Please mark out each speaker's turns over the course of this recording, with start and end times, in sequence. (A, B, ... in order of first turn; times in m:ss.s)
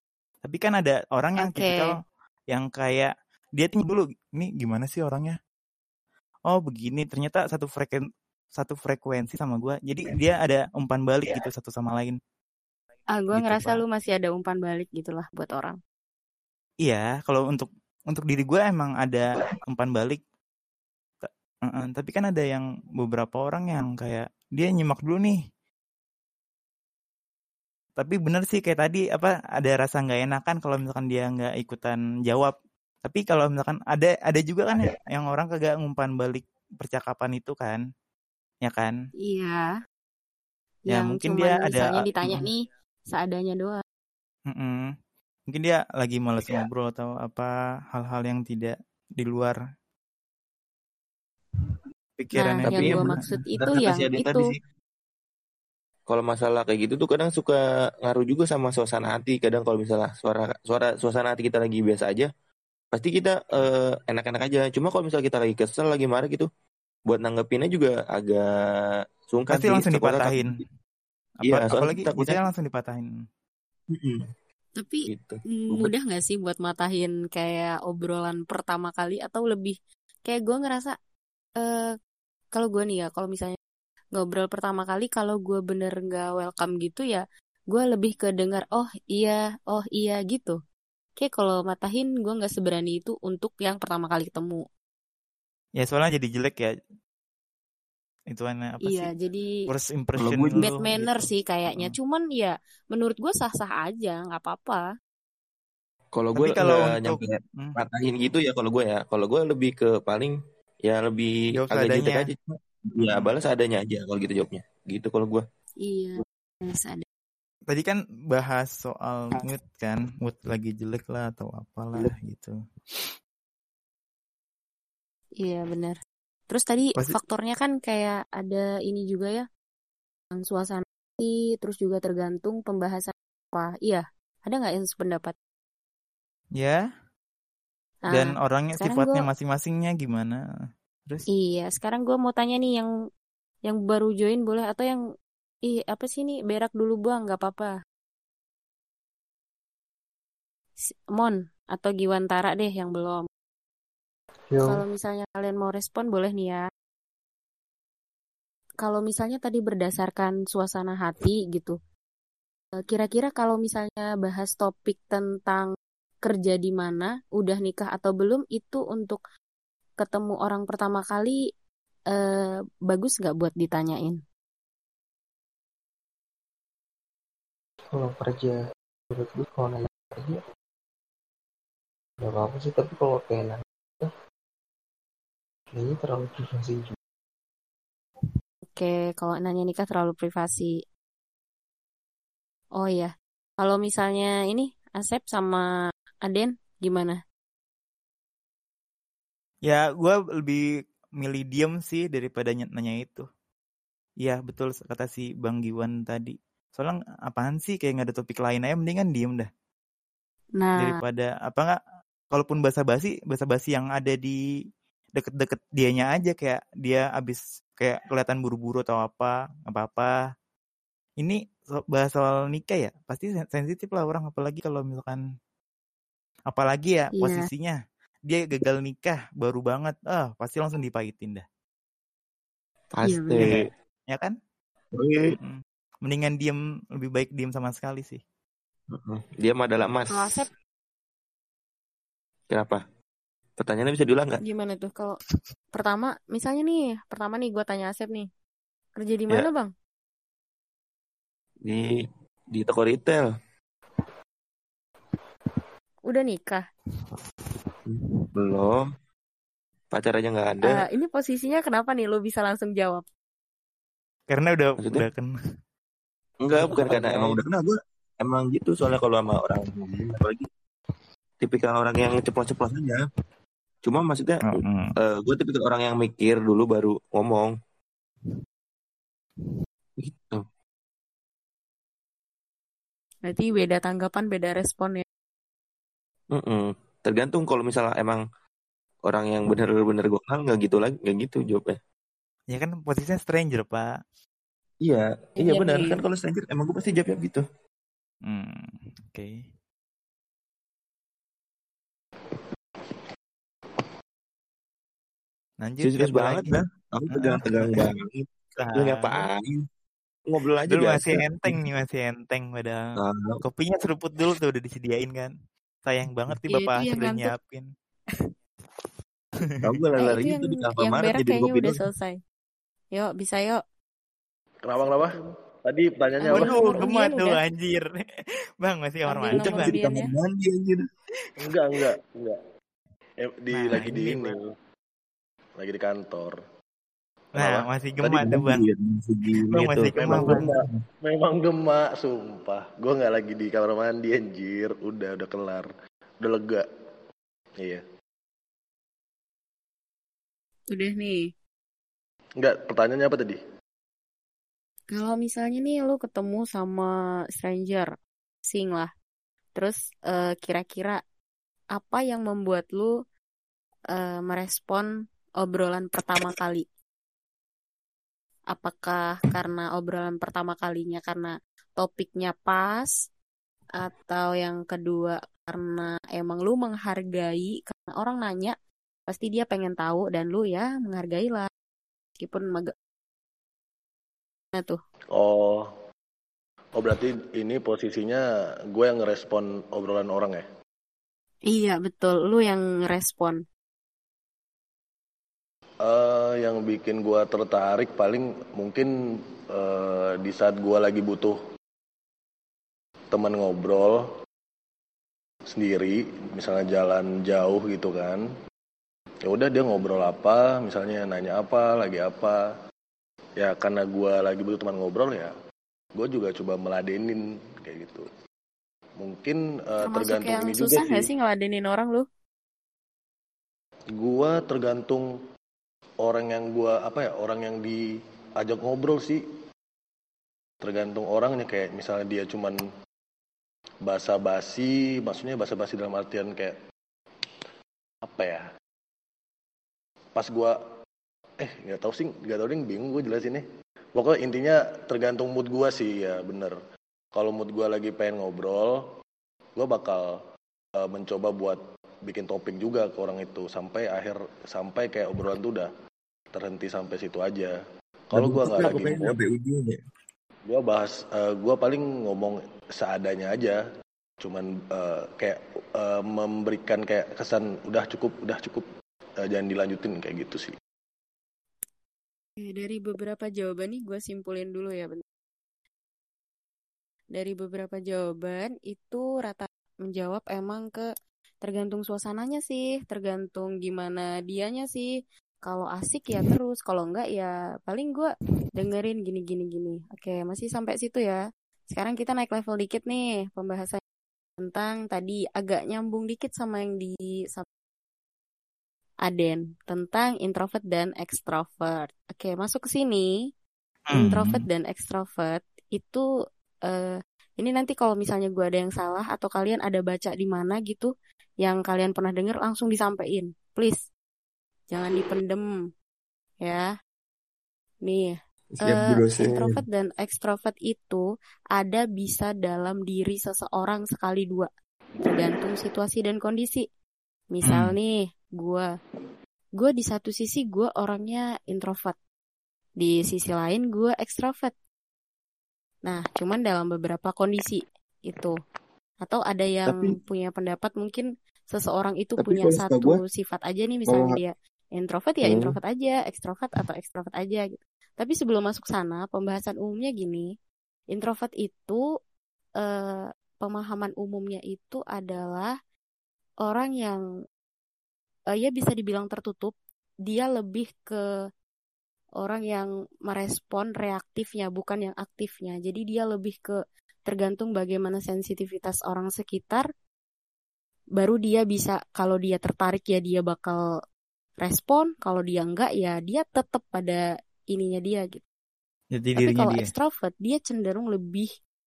0:00.4-0:02.0 A
0:01.4-0:01.9 B
0:02.5-0:05.4 A
0:06.5-0:12.2 A
0:13.1-0:15.8 B
0:13.3-0:13.8 A
0:16.8-0:20.2 A
0:21.2-0:25.4 A
0:28.0-0:32.5 A
0:33.0-0:37.8 A
0:38.6-0:38.9 A
0:39.2-0:39.7 B
0:40.9-0:43.8 B
0:40.9-0:42.4 A
0:44.5-0:45.0 A
0:45.5-0:49.6 A
0:52.2-0:53.4 A
0:52.3-0:54.5 B
0:52.7-0:53.1 C
0:53.6-0:54.4 C
0:56.1-1:02.3 C
1:02.9-1:06.5 C
1:07.1-1:10.6 C
1:09.5-1:10.5 A
1:11.4-1:13.1 A
1:11.4-1:12.4 C
1:13.9-1:14.3 C
1:14.8-1:19.8 B
1:15.1-1:15.9 C
1:20.3-1:21.0 B
1:21.6-1:21.9 B
1:22.6-1:23.6 B
1:24.2-1:30.6 B
1:31.2-1:34.6 B
1:35.8-1:36.8 A
1:38.3-1:39.1 A
1:38.8-1:39.5 B
1:39.7-1:40.8 A
1:40.2-1:41.1 C
1:40.6-1:44.8 B
1:46.1-1:52.4 C
1:46.4-1:47.8 A
1:51.5-1:52.3 A
1:52.9-1:55.4 C
1:53.0-1:53.3 A
1:55.8-1:57.0 B
1:57.7-2:02.6 A
2:05.4-2:06.0 B
2:06.5-2:09.5 B
2:10.3-2:15.3 B
2:16.6-2:16.8 A
2:18.1-2:19.2 B
2:18.1-2:20.4 A
2:21.3-2:22.9 B
2:23.7-2:25.0 B
2:25.7-2:27.8 B
2:31.1-2:33.3 B
2:34.5-2:34.8 D
2:34.6-2:36.6 B
2:38.8-2:41.8 B
2:42.8-2:45.7 B
2:46.2-2:49.2 B
2:50.0-2:51.4 B
2:52.1-2:54.2 B
2:57.9-2:58.6 D
2:59.1-3:00.4 D
3:02.2-3:04.1 D
3:05.7-3:06.9 D
3:08.7-3:10.8 B
3:12.8-3:15.6 B
3:16.3-3:17.2 B
3:19.6-3:20.6 A
3:21.2-3:23.3 A
3:24.2-3:29.5 A
3:30.6-3:31.0 B
3:30.8-3:31.8 A
3:32.3-3:34.4 A
3:35.2-3:40.1 A
3:41.2-3:45.2 A
3:46.5-3:47.8 A
3:47.2-3:47.4 B
3:48.3-3:51.4 A
3:53.0-3:53.6 C
3:53.0-3:53.5 B
3:53.4-3:54.3 A
3:55.0-3:55.4 C
3:55.4-3:58.2 A
3:58.9-4:00.4 C
4:00.1-4:00.5 B
4:02.5-4:02.8 C
4:03.6-4:04.4 C
4:04.4-4:05.2 B
4:05.7-4:08.3 B
4:09.0-4:09.7 B
4:11.6-4:13.3 C
4:16.1-4:16.7 B
4:17.9-4:18.8 C
4:19.9-4:20.8 C
4:20.6-4:23.1 B
4:24.3-4:25.3 A
4:24.8-4:25.1 C
4:26.4-4:30.5 C
4:31.4-4:33.0 C
4:33.8-4:37.5 C
4:34.5-4:34.9 A
4:40.0-4:40.4 C
4:43.3-4:45.0 B
4:46.4-4:48.2 C
4:49.1-4:51.8 C
4:52.5-4:53.9 A
4:54.8-4:57.4 C
4:55.4-4:56.0 B
4:58.3-4:59.5 A
5:05.6-5:06.5 A
5:05.8-5:09.6 C
5:07.1-5:07.9 A
5:08.6-5:09.2 A
5:10.3-5:11.6 C
5:10.7-5:12.8 A
5:13.0-5:13.4 C
5:13.4-5:15.3 A
5:15.9-5:17.7 A
5:16.5-5:17.3 B
5:19.6-5:21.8 C
5:20.0-5:22.2 B
5:22.9-5:23.6 B
5:24.6-5:26.6 E
5:24.8-5:25.2 B
5:26.2-5:27.4 B
5:26.3-5:28.0 A
5:28.6-5:30.0 A
5:29.1-5:30.1 B
5:29.3-5:30.8 C
5:31.4-5:32.4 E
5:33.2-5:34.5 E
5:33.5-5:34.4 A
5:35.6-5:36.4 E
5:37.3-5:37.7 E
5:37.4-5:38.7 A
5:38.0-5:40.6 C
5:39.5-5:40.5 A
5:40.0-5:46.7 E
5:50.7-5:51.3 B
5:52.4-5:53.4 E
5:54.9-5:57.9 B
5:58.5-5:58.9 B
5:59.6-6:01.0 B
6:01.8-6:02.9 B
6:03.9-6:04.9 B
6:05.4-6:06.7 B
6:08.5-6:12.9 B
6:13.8-6:18.6 B
6:19.1-6:21.5 B
6:22.2-6:22.7 B
6:25.1-6:25.7 E
6:26.8-6:30.4 E
6:31.5-6:33.4 B
6:35.8-6:38.9 E
6:39.5-6:41.4 E
6:43.1-6:44.1 E
6:45.5-6:48.2 E
6:49.3-6:52.4 E
6:53.4-6:55.3 E
6:56.0-6:58.1 E
6:59.0-7:01.1 E
6:59.8-7:02.1 B
7:03.9-7:05.1 E
7:06.0-7:07.8 E
7:08.4-7:09.2 E
7:10.6-7:12.6 E
7:13.8-7:16.6 E
7:18.1-7:18.5 E
7:20.2-7:20.6 E
7:21.4-7:23.4 E
7:24.0-7:26.6 E
7:27.2-7:28.8 E
7:29.6-7:30.2 E
7:30.8-7:35.7 E
7:36.3-7:37.6 E
7:38.1-7:39.2 E
7:38.1-7:39.8 C
7:40.5-7:43.6 E
7:44.2-7:48.7 E
7:49.2-7:50.6 E
7:52.4-7:55.0 B
7:57.1-8:00.9 B
8:01.4-8:04.9 B
8:05.4-8:11.2 B
8:11.7-8:13.8 B
8:14.4-8:17.5 B
8:19.1-8:23.1 B
8:23.9-8:24.4 A
8:23.9-8:26.0 B
8:26.7-8:30.9 B
8:31.4-8:33.8 B
8:34.7-8:35.5 B
8:36.4-8:36.7 B
8:37.8-8:41.0 B
8:38.5-8:39.6 C
8:41.6-8:44.5 B
8:45.1-8:46.7 B
8:47.3-8:48.7 B
8:47.4-8:47.7 A
8:49.6-8:52.0 B
8:52.8-8:54.5 B
8:55.9-8:58.4 B
8:59.0-9:10.3 B
8:59.7-9:00.0 C
9:02.2-9:03.0 C
9:03.9-9:04.2 C
9:05.2-9:05.6 C
9:10.9-9:11.8 B
9:12.6-9:15.5 B
9:16.4-9:17.0 B
9:18.3-9:19.6 B
9:20.1-9:21.0 B
9:22.2-9:26.5 B
9:27.1-9:29.7 B
9:31.0-9:33.6 B
9:34.4-9:38.2 B
9:38.9-9:39.7 A
9:39.2-9:41.3 B